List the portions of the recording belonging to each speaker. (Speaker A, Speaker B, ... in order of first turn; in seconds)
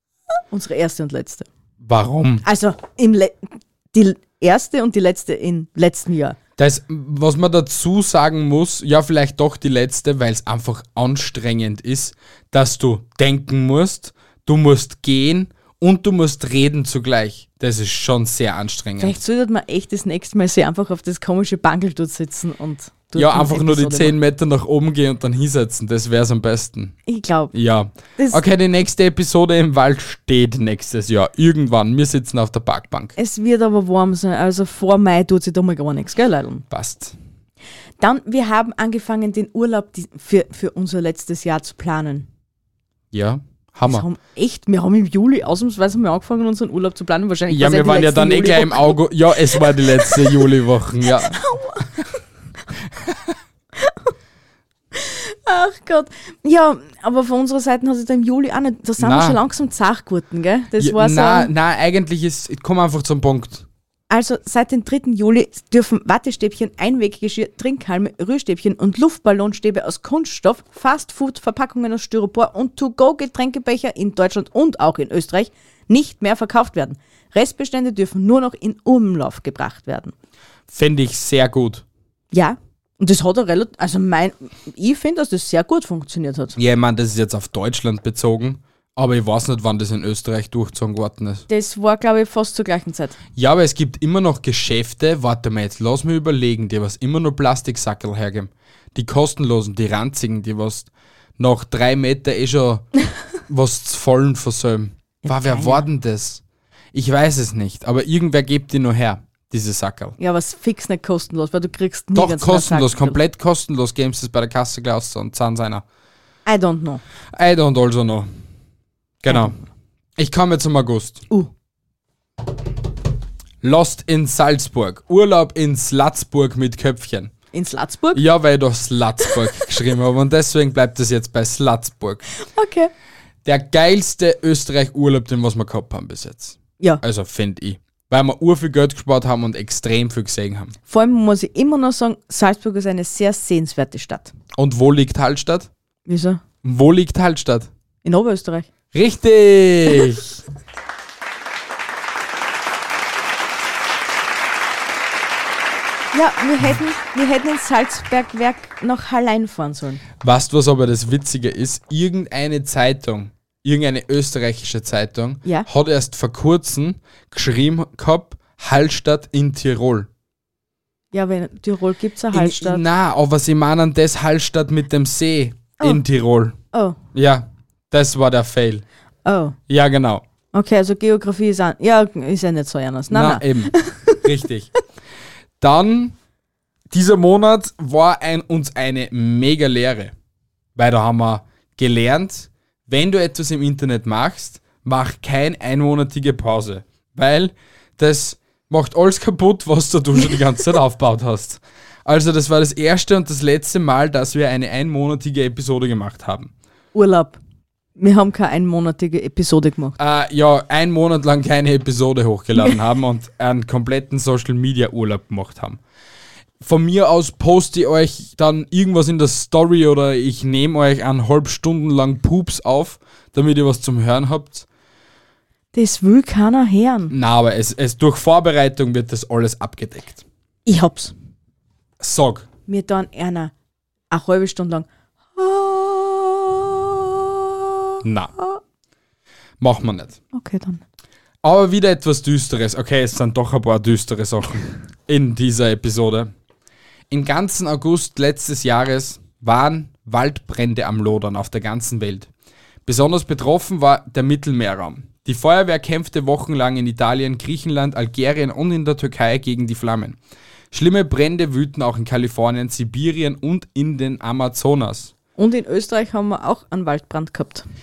Speaker A: 0.5-1.4, 2.4-6.4, 19.0-24.1, 27.1-27.5, 28.2-28.4, 33.1-36.6, 38.0-42.3, 43.9-49.0, 49.6-50.4, 51.1-52.0, 53.8-54.1, 54.9-61.5, 64.1-80.1, 82.3-86.6, 91.5-93.2, 105.2-105.9, 110.2-113.2, 116.5-117.0, 127.5-128.2, 132.4-132.9, 140.9-144.3, 146.1-146.4, 148.0-148.7, 156.1-160.0, 171.1-172.8, 176.7-177.0, 179.2-179.6, 180.5-184.2, 206.9-207.4, 208.0-209.9, 225.7-227.1, 230.7-231.1, 232.7-233.5, 234.1-238.6, 240.3-240.8, 265.4-267.6
Speaker B: 1.8-2.4, 6.6-19.2, 23.1-26.9, 27.5-33.1, 36.7-37.1, 43.1-44.1, 47.5-51.4, 53.0-53.3, 59.0-59.4, 60.8-63.6, 80.7-81.8, 86.6-91.5, 93.4-102.9, 103.5-106.4, 106.9-110.2, 112.1-115.8, 117.3-118.3, 119.2-119.6, 120.2-121.2, 123.6-127.3, 128.1-132.2, 133.4-140.7, 144.6-145.7, 146.6-147.7, 148.9-150.4, 160.2-170.1, 172.3-176.6, 177.1-178.8, 179.7-180.2, 183.1-184.7, 185.6-186.2, 186.9-190.1, 190.8-206.5, 210.0-215.8, 216.6-224.7, 227.1-230.2, 232.0-232.5, 238.0-238.3, 239.6-240.2, 241.4-246.3, 247.1-252.3, 252.9-260.2, 260.7-265.1